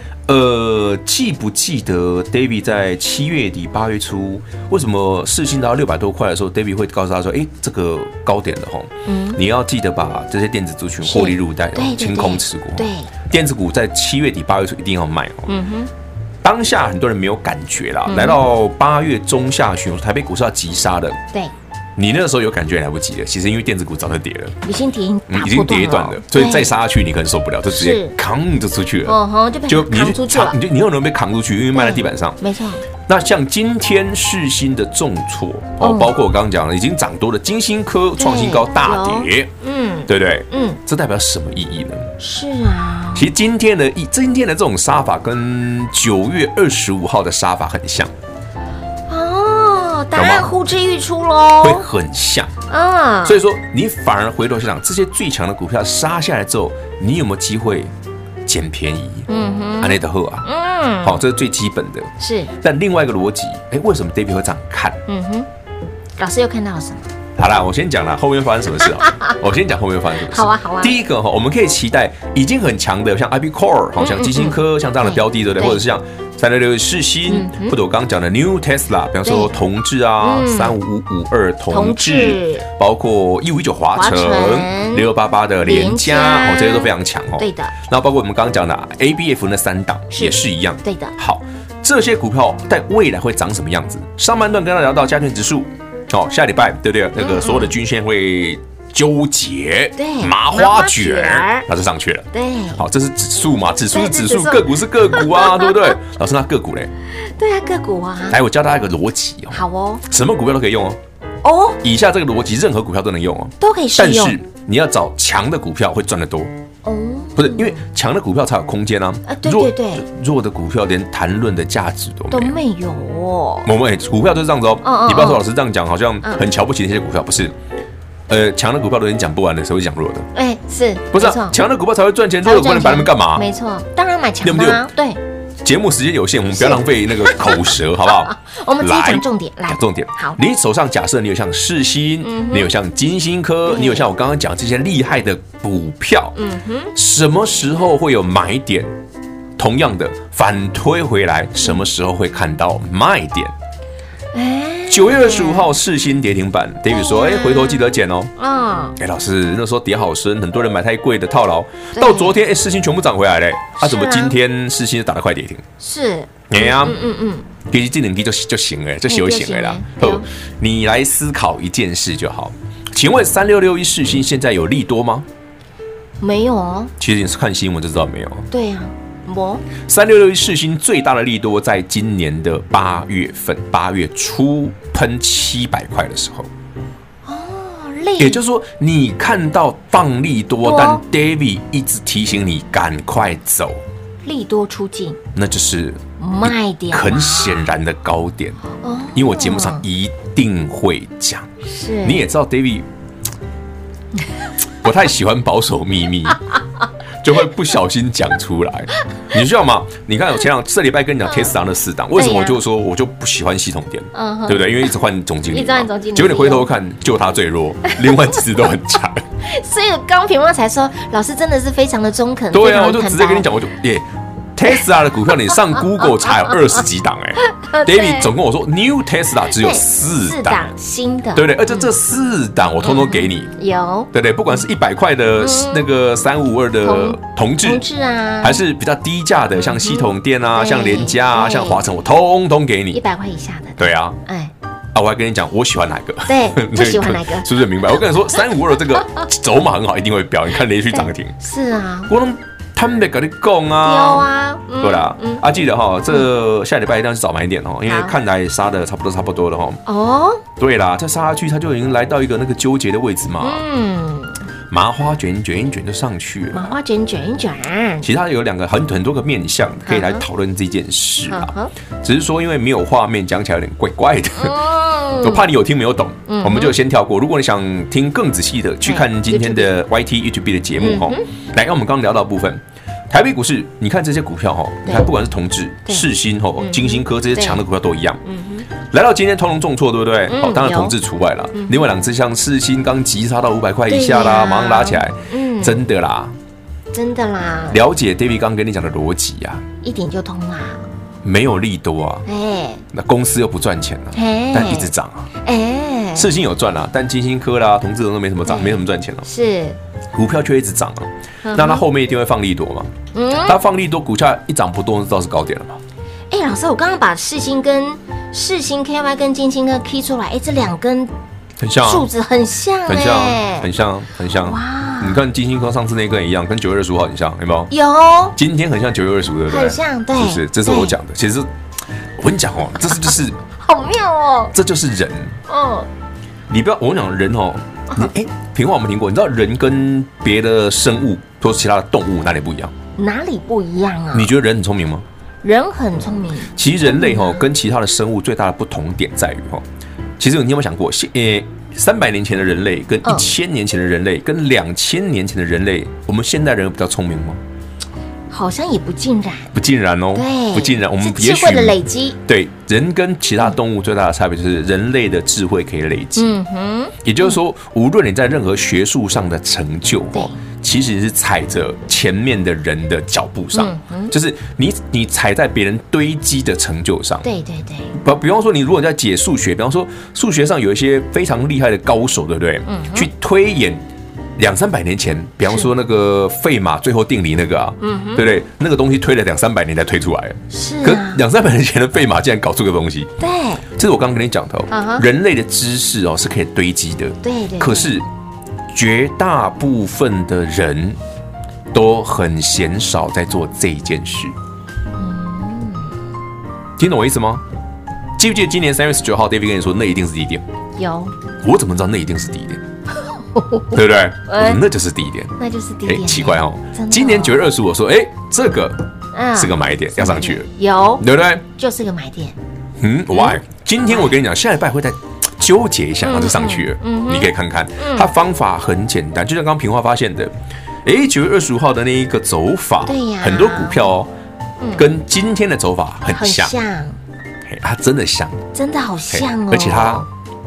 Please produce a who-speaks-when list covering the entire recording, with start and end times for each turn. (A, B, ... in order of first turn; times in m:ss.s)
0:00.3-0:15.5 A
0:09.0-0:09.4 B
0:11.0-0:13.1 B
0:15.5-0:15.9 B
0:16.4-0:21.2 A
0:18.0-0:18.4 B
0:22.0-0:24.6 A
0:24.6-0:26.7 B
0:25.3-0:29.2 A
0:27.7-0:28.1 B
0:29.1-0:30.6 B
0:29.7-0:32.4 A
0:31.7-0:32.8 B
0:33.1-0:39.5 A
0:35.8-0:36.1 B
0:38.2-0:40.8 B
0:40.1-0:42.1 A
0:42.2-0:43.3 B
0:43.1-0:48.1 A
0:49.1-0:51.8 B
0:50.1-0:50.5 A
0:51.6-0:52.5 A
0:52.7-0:53.4 B
0:53.2-0:57.9 A
0:58.4-0:59.3 A
0:59.3-1:01.2 B
0:59.8-1:00.5 A
1:01.0-1:05.0 A
1:02.2-1:02.5 B
1:05.1-1:05.5 B
1:06.2-1:07.0 B
1:07.4-1:46.9 A
1:09.0-1:09.3 B
1:10.3-1:10.9 B
1:14.0-1:15.8 B
1:17.3-1:17.8 B
1:19.2-1:19.5 B
1:20.2-1:20.8 B
1:21.7-1:22.6 B
1:23.9-1:25.1 B
1:25.6-1:27.7 B
1:30.1-1:31.1 B
1:37.2-1:37.7 B
1:40.0-1:41.6 B
1:42.3-1:42.8 B
1:43.9-1:45.9 B
1:47.3-1:48.4 B
1:48.3-1:51.0 A
1:49.5-1:50.0 B
1:51.4-1:51.8 B
1:51.8-1:56.5 A
1:53.6-1:54.4 B
1:56.8-1:57.8 B
1:57.4-2:02.6 A
1:59.2-2:00.0 B
2:02.3-2:03.7 B
2:03.6-2:07.5 A
2:04.8-2:05.4 B
2:08.3-2:10.3 A
2:10.3-2:11.6 B
2:11.1-2:13.4 A
2:12.4-2:15.2 B
2:14.4-2:14.9 A
2:15.6-2:26.4 A
2:16.5-2:17.5 B
2:18.3-2:20.4 B
2:22.2-2:22.7 B
2:23.7-2:24.1 B
2:26.4-2:26.9 B
2:26.9-2:28.9 A
2:29.6-2:33.5 A
2:34.3-2:35.7 B
2:34.9-2:38.3 A
2:36.9-2:37.8 B
2:38.4-2:39.0 B
2:39.0-2:45.6 A
2:41.9-2:42.4 B
2:43.8-2:44.4 B
2:45.8-2:47.4 B
2:46.5-2:47.0 A
2:47.7-2:55.3 A
2:49.1-2:50.2 B
2:56.2-2:56.9 B
2:57.0-2:58.5 A
2:58.5-2:59.6 B
2:59.8-3:06.5 A
3:07.2-3:08.4 B
3:08.2-3:13.8 A
3:10.6-3:11.0 B
3:14.2-3:15.2 B
3:15.3-3:18.6 A
3:16.2-3:17.7 B
3:18.8-3:19.8 B
3:19.1-3:21.5 A
3:21.6-3:22.2 B
3:22.0-3:22.9 A
3:24.8-3:26.4 A
3:27.2-3:39.2 A
3:32.1-3:32.6 B
3:34.1-3:34.8 B
3:35.5-3:36.7 B
3:39.4-3:43.4 B
3:42.5-3:50.7 A
3:47.4-3:48.3 B
3:49.5-3:51.9 B
3:51.3-3:53.5 A
3:52.8-3:54.1 B
3:54.1-3:57.8 A
3:55.4-3:55.9 B
3:56.8-3:58.6 B
3:58.4-4:03.0 A
3:59.6-4:01.8 B
4:02.9-4:04.5 B
4:03.8-4:04.2 A
4:04.9-4:11.4 A
4:06.3-4:07.5 B
4:10.9-4:12.1 B
4:12.1-4:14.3 A
4:13.8-4:15.4 B
4:14.8-4:19.8 A
4:17.8-4:18.1 B
4:19.8-4:20.4 B
4:20.6-4:23.6 A
4:23.4-4:24.4 B
4:24.7-4:26.7 A
4:26.5-4:28.1 B
4:28.0-4:48.2 A
4:29.9-4:30.2 B
4:31.3-4:31.7 B
4:34.4-4:35.4 B
4:36.3-4:36.8 B
4:38.8-4:39.7 B
4:40.8-4:41.2 B
4:46.6-4:47.6 B
4:48.2-4:48.7 B
4:48.9-4:56.4 A
4:50.3-4:50.9 B
4:53.9-4:55.8 B
4:56.9-4:57.8 B
4:57.7-4:59.6 A
4:59.8-5:00.8 B
5:01.2-5:02.2 A
5:02.3-5:02.8 B
5:02.9-5:05.3 A
5:04.1-5:04.9 B
5:05.4-5:06.3 B
5:06.1-5:09.2 A
5:08.4-5:09.8 B
5:10.1-5:12.9 A
5:11.4-5:11.8 B
5:13.1-5:13.6 B
5:13.4-5:15.8 A
5:16.3-5:21.1 B
5:21.6-5:22.1 A
5:21.8-5:23.7 B
5:22.9-5:27.7 A
5:24.4-5:25.2 B
5:27.7-5:28.4 B
5:28.3-5:31.5 A
5:29.5-5:30.9 B
5:32.2-5:33.4 A
5:33.6-5:34.5 B
5:34.5-5:35.4 A
5:35.5-5:35.9 B
5:36.5-5:42.7 A
5:43.0-5:44.3 B
5:44.1-5:45.0 A
5:45.4-5:47.4 B
5:46.5-5:49.6 A
5:50.2-5:57.4 A
5:58.3-5:59.5 B
5:59.5-6:06.3 A
6:00.1-6:02.2 B
6:06.2-6:07.4 B
6:07.0-6:17.2 A
6:10.1-6:10.4 B
6:13.5-6:14.1 B
6:17.2-6:17.9 B
6:17.9-6:23.8 A
6:22.6-6:23.1 B
6:24.4-6:33.1 A
6:27.8-6:28.2 B
6:30.5-6:31.2 B
6:33.2-6:33.6 B
6:33.8-6:38.1 A
6:34.7-6:35.0 B
6:37.2-6:37.9 B
6:38.7-6:41.0 A
6:41.7-6:44.3 A
6:45.0-6:45.9 B
6:46.8-6:47.4 A
6:48.2-6:50.4 A
6:50.8-6:51.1 B
6:51.4-6:52.6 A
6:53.4-6:53.7 B
6:53.7-7:01.4 A
6:54.3-6:54.6 B
6:55.4-6:57.4 B
6:59.1-7:02.4 B
7:02.8-7:14.1 A
7:03.1-7:04.1 B
7:06.0-7:08.1 B
7:12.8-7:13.9 B
7:14.6-7:14.9 B
7:14.8-7:16.5 A
7:16.1-7:17.0 B
7:17.4-7:18.4 A
7:18.5-7:20.1 B
7:19.1-7:20.1 A